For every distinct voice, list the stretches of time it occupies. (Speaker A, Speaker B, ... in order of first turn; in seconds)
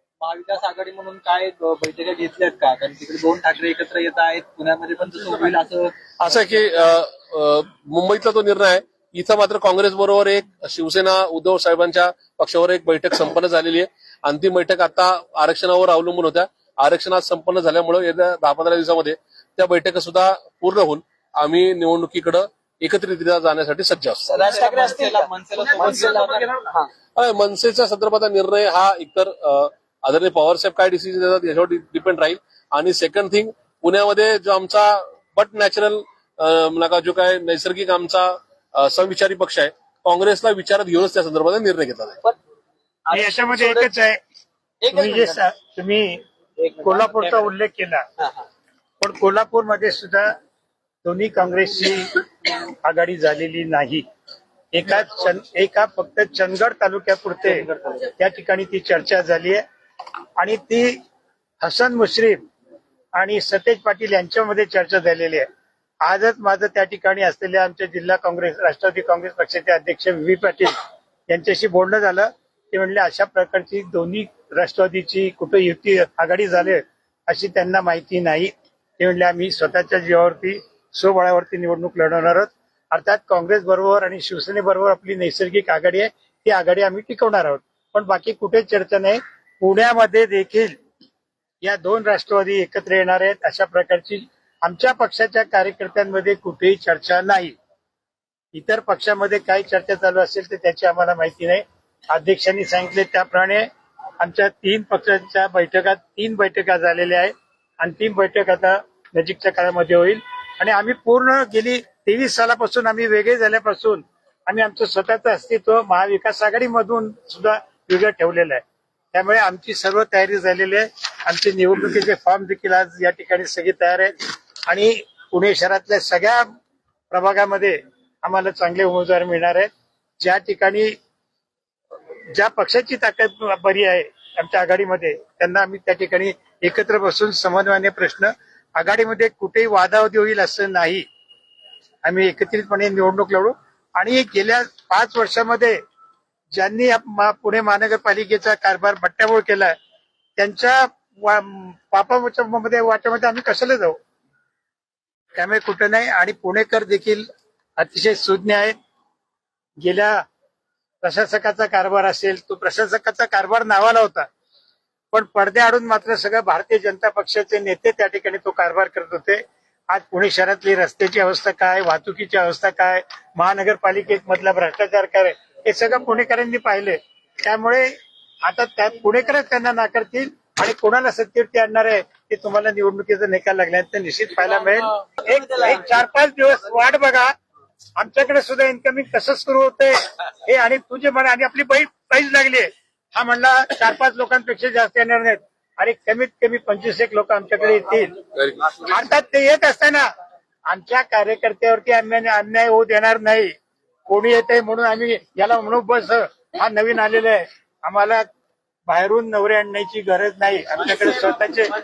Speaker A: 0.2-5.9, 24.4-26.7, 46.7-47.1, 57.4-58.0
Speaker B: 6.2-24.3, 27.2-42.2
Speaker C: 24.2-26.9, 43.0-43.9, 44.8-45.4
Speaker D: 43.1-44.2, 44.9-46.2, 46.8-48.0, 49.0-50.3, 51.0-54.0, 54.7-59.6, 60.4-61.0, 61.6-62.4, 63.2-65.5, 66.0-70.7, 71.3-90.7, 91.6-97.5, 98.5-103.7, 104.2-124.2, 124.7-126.5, 127.1-129.7, 130.2-130.9, 132.3-141.0, 142.0-145.8, 146.6-149.7, 150.4-154.0, 155.3-157.2, 157.8-158.7, 159.8-160.2, 161.0-164.3, 165.1-177.9, 178.4-187.3, 188.0-198.1, 198.7-200.1, 200.7-203.5, 204.1-208.2, 208.9-211.7